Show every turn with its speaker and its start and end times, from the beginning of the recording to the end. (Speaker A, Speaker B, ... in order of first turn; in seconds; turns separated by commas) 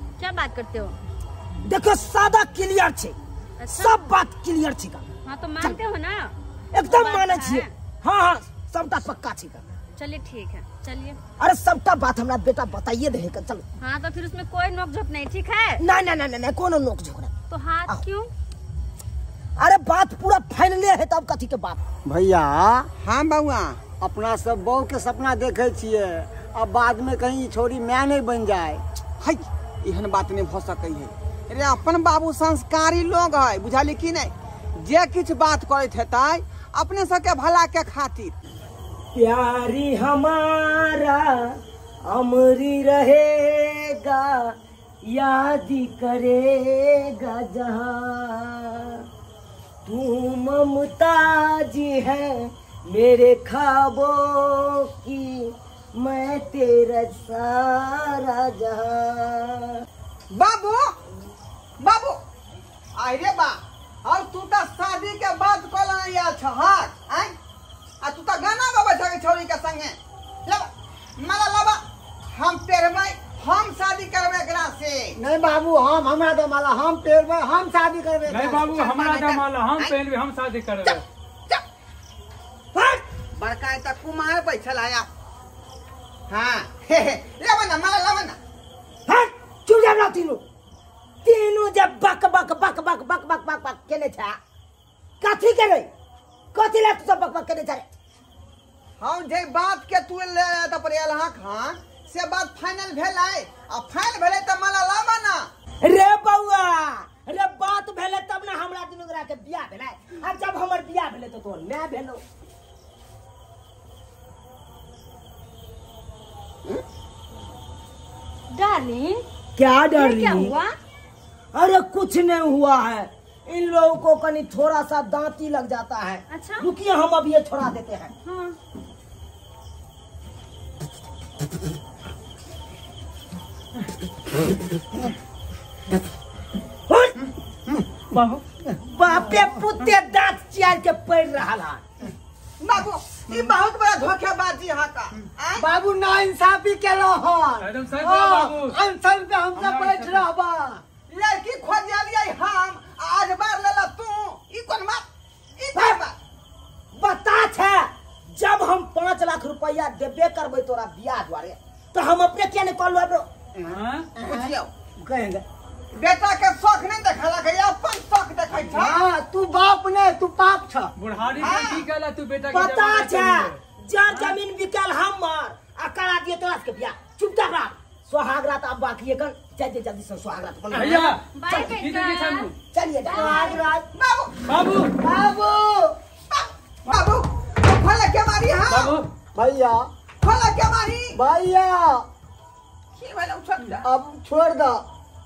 Speaker A: 0.2-1.0, Speaker B: 1.6-3.2, Speaker A: 3.6-4.0, Speaker B: 3.7-5.1, Speaker A: 5.2-7.7, Speaker B: 6.7-9.6, Speaker A: 10.0-11.2, Speaker B: 11.4-13.6, Speaker A: 13.8-15.8, Speaker B: 15.8-17.3, Speaker A: 17.5-18.3, Speaker B: 19.6-21.8, Speaker C: 22.1-22.9, Speaker D: 23.0-23.8, Speaker C: 24.0-28.8, Speaker D: 29.2-38.4, Speaker B: 39.1-44.5, Speaker B: 45.1-49.0, Speaker B: 49.9-59.8, Speaker D: 60.3-61.0, Speaker D: 61.8-62.2, Speaker D: 63.0-67.3, Speaker D: 68.0-70.0, Speaker D: 71.2-75.2, Speaker C: 75.2-78.7, Speaker E: 78.3-81.0, Speaker D: 78.7-80.0, Speaker B: 82.7-83.0, Speaker D: 83.4-85.1, Speaker D: 86.3-88.4, Speaker B: 89.1-90.4, Speaker B: 91.2-94.4, Speaker B: 95.2-95.9, Speaker B: 96.5-97.8, Speaker D: 99.0-105.5, Speaker B: 105.8-112.2, Speaker A: 118.5-119.2, Speaker B: 119.6-120.6, Speaker A: 119.9-120.8, Speaker B: 121.5-128.1, Speaker A: 126.3-126.7, Speaker A: 128.3-128.6, Speaker B: 136.9-137.2, Speaker E: 138.1-138.4, Speaker B: 138.8-141.8, Speaker D: 142.6-145.7, Speaker C: 145.6-150.8, Speaker E: 147.6-148.8, Speaker E: 149.6-150.3, Speaker D: 151.1-155.1, Speaker D: 155.6-156.2, Speaker B: 155.7-156.0, Speaker B: 156.9-163.3, Speaker E: 163.7-164.1, Speaker D: 164.2-164.7, Speaker C: 164.2-165.4, Speaker D: 165.9-169.0, Speaker C: 168.6-170.9, Speaker E: 171.0-174.4, Speaker D: 171.4-171.9, Speaker B: 172.5-181.6, Speaker E: 180.7-182.5, Speaker A: 181.3-182.5, Speaker B: 182.7-183.6, Speaker A: 183.1-183.5, Speaker C: 183.1-183.9, Speaker D: 183.9-184.4, Speaker E: 184.5-184.9, Speaker C: 185.0-185.9, Speaker D: 186.3-189.0, Speaker E: 188.7-189.1, Speaker C: 189.3-189.9, Speaker D: 190.2-191.2, Speaker C: 191.1-192.1, Speaker D: 193.0-193.8, Speaker C: 193.8-194.8